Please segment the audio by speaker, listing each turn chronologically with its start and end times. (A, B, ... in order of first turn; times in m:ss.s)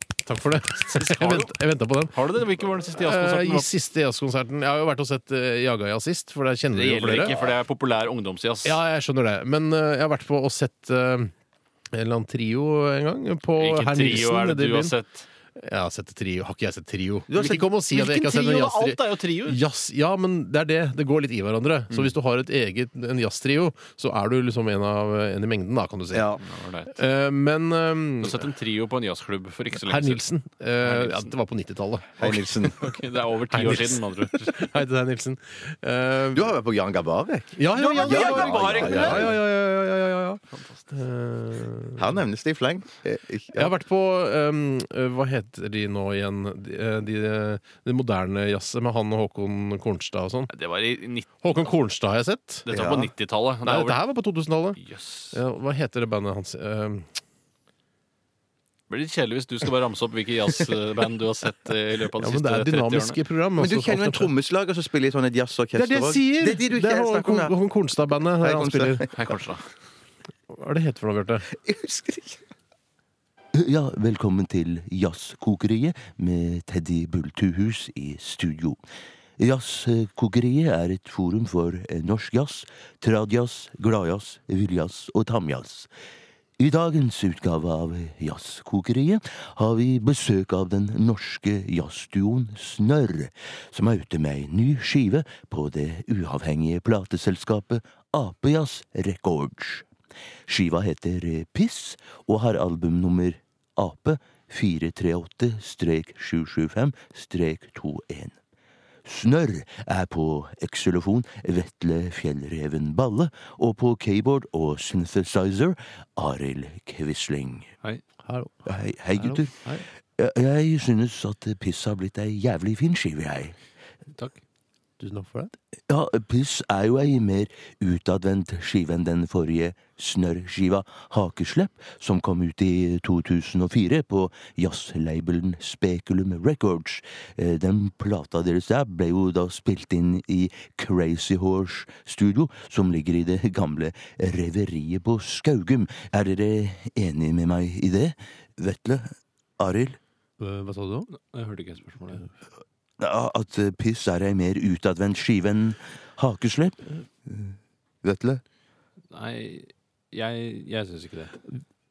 0:00.2-0:02.2 A
0:00.9-0:01.5 B
0:02.1-0:03.7 B
0:03.0-0:07.4 A
0:06.7-0:08.8 B
0:08.6-0:11.3 A
0:11.9-0:15.0 A
0:13.6-0:15.3 B
0:15.6-0:28.4 A
0:17.3-0:17.7 C
0:17.9-0:19.6 B
0:26.4-0:27.0 B
0:28.2-0:30.2 B
0:29.8-0:32.8 A
0:30.8-0:31.4 B
0:32.2-0:32.9 C
0:32.7-0:34.6 B
0:33.5-0:36.6 A
0:36.3-0:39.3 C
0:37.6-0:42.1 A
0:37.7-0:39.4 B
0:40.5-0:40.9 B
0:42.0-0:43.7 C
0:43.5-0:50.5 A
0:50.5-0:51.3 B
0:51.4-0:52.7 A
0:52.7-0:54.0 B
0:52.7-0:53.1 C
0:53.6-0:54.8 A
0:54.8-0:55.4 B
0:55.3-0:57.1 A
0:58.9-1:03.2 B
1:02.2-1:04.3 A
1:03.6-1:07.6 C
1:05.7-1:09.1 A
1:08.4-1:09.2 C
1:09.1-1:09.6 B
1:10.5-1:11.5 A
1:11.5-1:12.4 C
1:13.5-1:18.8 D
1:19.4-1:25.9 D
1:26.6-1:39.9 D
1:40.5-1:48.4 D
1:49.0-1:57.7 D
1:58.2-1:59.9 A
1:58.7-2:03.6 D
2:04.2-2:04.4 B
2:05.0-2:05.5 A
2:05.9-2:30.0 D
2:30.4-2:31.1 A
2:31.1-2:32.2 B
2:33.0-2:38.4 D
2:39.1-2:41.4 B